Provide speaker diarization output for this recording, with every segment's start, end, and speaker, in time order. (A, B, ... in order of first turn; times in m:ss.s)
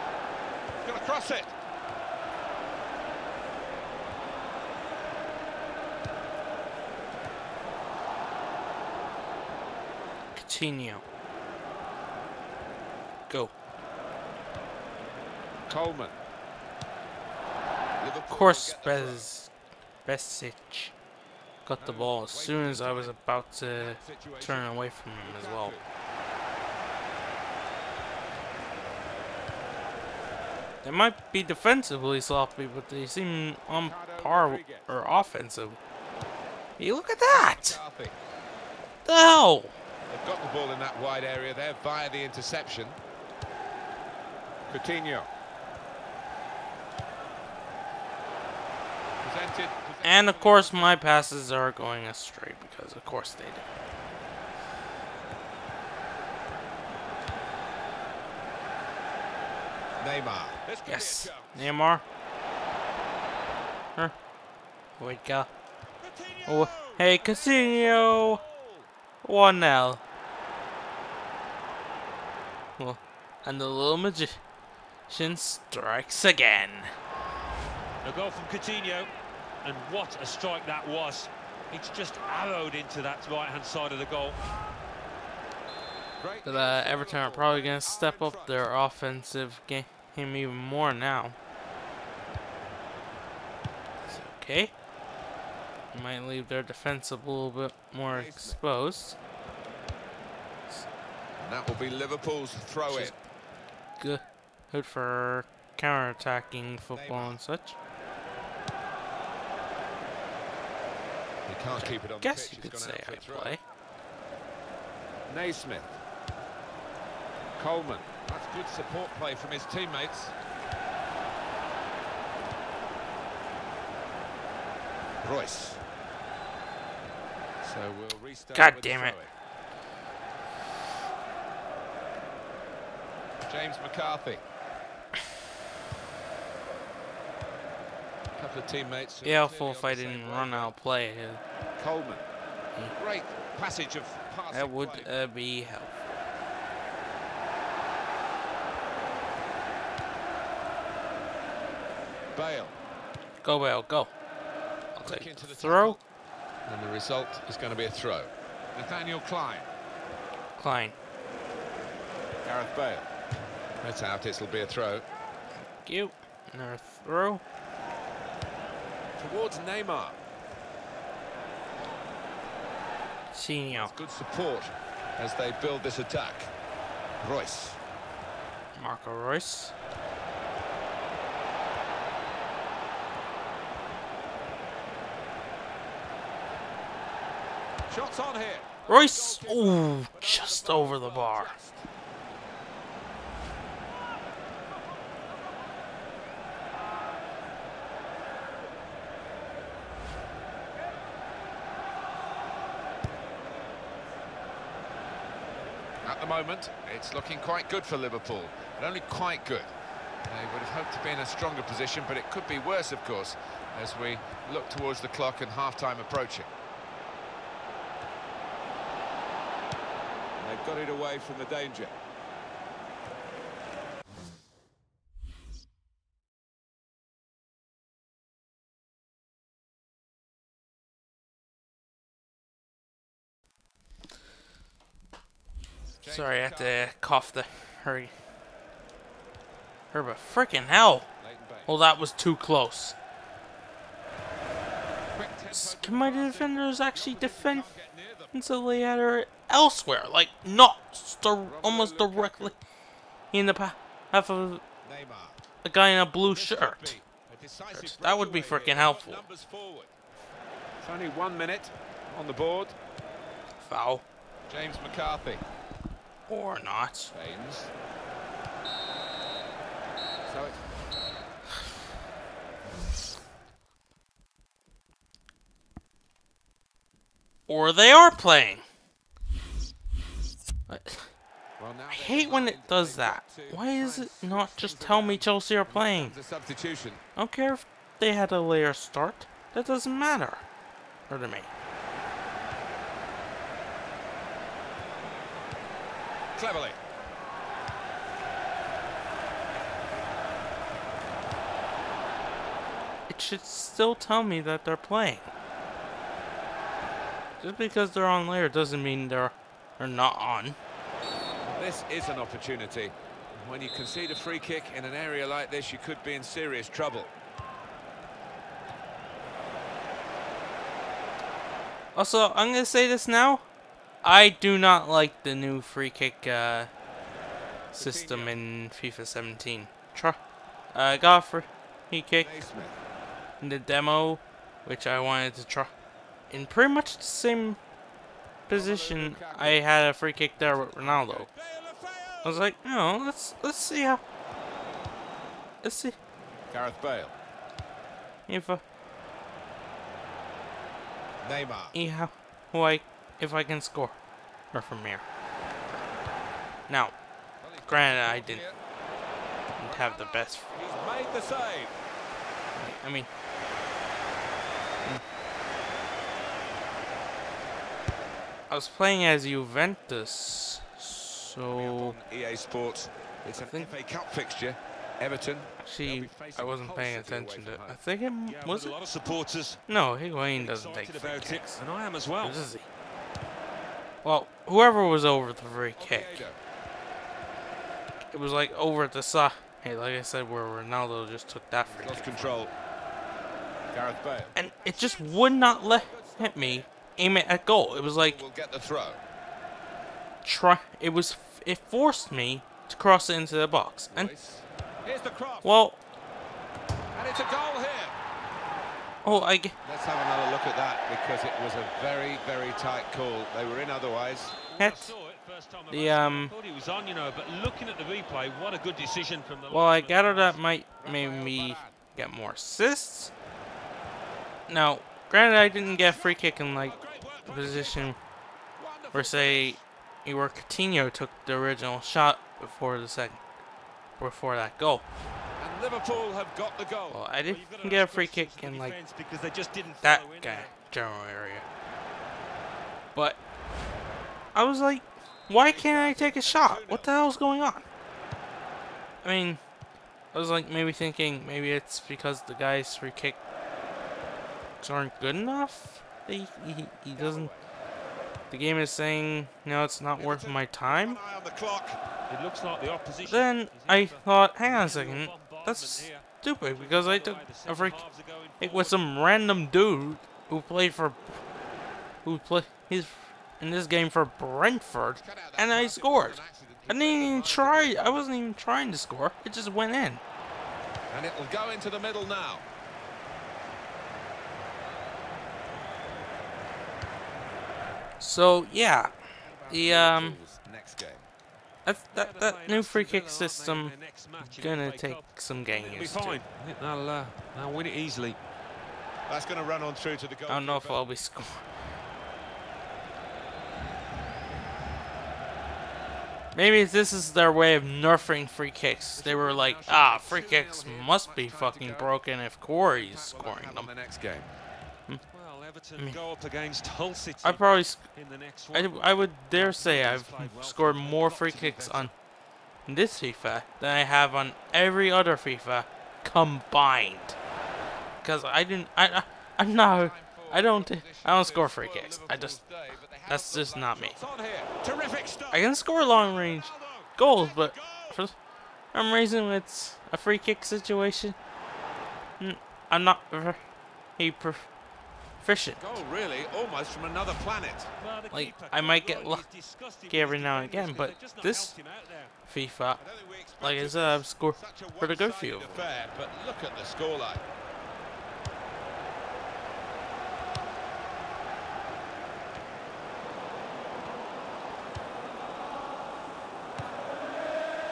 0:00.8-0:01.5 A
0:10.4-0:11.0 B
0:15.7-0:16.2 A
0:18.0-0:19.3 A
0:18.3-0:19.5 B
0:20.0-0:20.9 B
0:21.6-0:25.8 B
0:21.8-0:23.2 A
0:23.8-0:25.9 A
0:30.8-0:35.8 B
0:33.8-0:34.9 A
0:36.8-0:37.8 B
0:37.3-0:38.2 A
0:39.0-0:39.8 B
0:40.1-0:43.0 A
0:44.7-0:45.3 A
0:49.2-0:51.1 A
0:50.0-0:53.6 B
1:00.0-1:01.7 A
1:00.9-1:02.0 B
1:05.0-1:05.5 B
1:06.0-1:08.9 A
1:06.5-1:08.4 B
1:09.2-1:10.0 B
1:12.8-1:14.4 B
1:15.1-1:16.9 B
1:18.0-1:19.1 C
1:19.6-1:24.4 C
1:26.2-1:28.7 A
1:26.4-1:31.4 B
1:34.1-1:34.7 B
1:35.9-1:39.2 B
1:38.1-1:38.6 A
1:41.4-1:43.2 A
1:42.9-1:43.2 B
1:44.0-1:47.8 B
1:46.9-1:47.4 A
1:51.5-1:53.6 A
1:51.7-1:53.6 B
1:55.3-1:56.0 A
1:57.6-2:00.3 A
2:05.2-2:05.8 A
2:07.6-2:09.3 A
2:08.5-2:09.2 B
2:13.5-2:14.4 A
2:18.4-2:20.8 A
2:19.2-2:21.4 B
2:21.8-2:22.2 A
2:22.9-2:25.1 A
2:24.5-2:26.1 B
2:32.3-2:32.8 A
2:33.4-2:34.1 B
2:35.0-2:36.0 B
2:35.0-2:36.0 A
2:36.6-2:39.7 A
2:40.6-2:41.0 B
2:42.4-2:43.1 A
2:43.8-2:45.0 A
2:45.8-2:47.4 B
2:49.2-2:50.2 A
2:53.3-2:53.9 B
2:53.7-2:56.5 A
2:57.2-2:57.8 A
2:58.8-2:59.7 B
3:07.9-3:11.9 A
3:08.9-3:11.6 B
3:26.0-3:29.7 A
3:30.2-3:36.5 A
3:40.4-3:42.0 A
3:56.0-3:56.9 A
3:56.1-3:58.1 B
3:59.9-4:01.1 B
4:01.2-4:01.7 A
4:01.7-4:03.0 B
4:05.1-4:08.3 A
4:05.5-4:07.7 B
4:08.3-4:12.6 B
4:11.4-4:12.6 A
4:13.3-4:14.6 B
4:14.8-4:15.4 A
4:15.6-4:17.0 B
4:16.2-4:19.9 A
4:17.7-4:19.2 B
4:20.8-4:22.8 A
4:23.6-4:24.1 B
4:24.5-4:25.4 A
4:26.3-4:27.1 B
4:27.1-4:27.7 A
4:30.2-4:30.6 A
4:37.5-4:38.6 B
4:40.7-4:41.1 B
4:41.6-4:47.0 A
4:41.9-4:46.2 B
4:47.2-4:50.4 B
4:51.1-4:51.5 B
4:56.4-4:56.8 A
5:03.1-5:05.3 B
5:07.4-5:10.6 B
5:11.5-5:17.1 A
5:22.0-5:23.4 B
5:24.0-5:26.7 B
5:27.7-5:28.4 A
5:27.7-5:30.2 B
5:30.7-5:32.5 B
5:32.2-5:32.8 A
5:33.4-5:35.7 B
5:36.3-5:37.6 B
5:38.5-5:41.3 B
5:38.5-5:39.7 A
5:40.4-5:42.4 A
5:42.2-5:44.0 B
5:45.6-5:46.0 B
5:46.5-5:47.2 A
5:48.3-5:48.6 B
5:51.2-5:51.8 A
5:51.7-5:54.0 B
5:54.5-5:55.0 B
5:56.7-5:56.9 B
5:57.4-5:58.6 A
5:57.6-5:58.4 B
5:59.6-6:00.5 B
5:59.6-6:01.8 A
6:02.6-6:03.1 B
6:08.5-6:12.0 B
6:11.5-6:17.8 A
6:13.4-6:13.7 B
6:15.6-6:18.8 B
6:18.3-6:19.6 C
6:19.7-6:21.6 B
6:20.3-6:22.4 C
6:22.2-6:22.7 B
6:24.0-6:26.3 B
6:25.8-6:26.4 A
6:28.1-6:32.3 B
6:31.7-6:32.5 A
6:33.7-6:36.7 A
6:34.4-6:38.2 B
6:38.0-6:39.0 A
6:40.2-6:44.1 B
6:43.9-6:45.5 A
6:45.4-6:45.8 B
6:46.9-6:48.0 A
6:49.0-6:49.6 B
6:49.6-6:54.5 A
6:54.5-7:00.4 C
6:54.6-6:54.9 B
6:55.7-6:56.3 B
6:59.5-7:03.1 B
7:00.8-7:01.8 A
7:04.5-7:08.0 B
7:05.6-7:07.9 A
7:08.6-7:09.6 A
7:08.9-7:13.2 B
7:14.0-7:14.8 B
7:15.4-7:17.0 A
7:16.9-7:18.8 B
7:17.2-7:20.6 C
7:19.8-7:21.4 B
7:24.4-7:27.7 B
7:25.4-7:26.9 A
7:29.0-7:29.4 B
7:30.1-7:33.2 B
7:34.6-7:37.3 B
7:37.0-7:37.4 A
7:38.3-7:41.0 B
7:40.0-7:41.8 A
7:42.1-7:48.8 C
7:43.0-7:47.8 B
7:48.4-7:51.0 B
7:52.0-8:00.0 B
7:55.0-7:58.1 A
8:00.9-8:02.4 A
8:08.0-8:09.0 B
8:09.2-8:11.1 A
8:09.5-8:10.2 B
8:11.6-8:16.2 B
8:11.9-8:18.2 C
8:15.7-8:16.0 A
8:19.1-8:20.8 A
8:20.3-8:21.5 B
8:26.4-8:33.7 B
8:29.0-8:31.9 A
8:32.8-8:34.3 A
8:35.1-8:41.1 C
8:37.2-8:37.8 B
8:38.5-8:41.9 B
8:40.8-8:41.9 A
8:42.7-8:47.2 B
8:48.0-8:52.4 B
8:49.7-8:55.5 A
8:53.0-8:54.0 B
8:55.3-8:58.2 B
8:56.1-8:58.0 A
8:58.7-9:01.2 B
9:02.2-9:03.4 B
9:04.0-9:04.5 B
9:05.2-9:05.8 B
9:05.6-9:07.7 A
9:07.8-9:12.1 C
9:08.1-9:09.2 B
9:09.9-9:11.6 B
9:12.3-9:12.8 B
9:12.8-9:17.2 A
9:13.4-9:15.7 B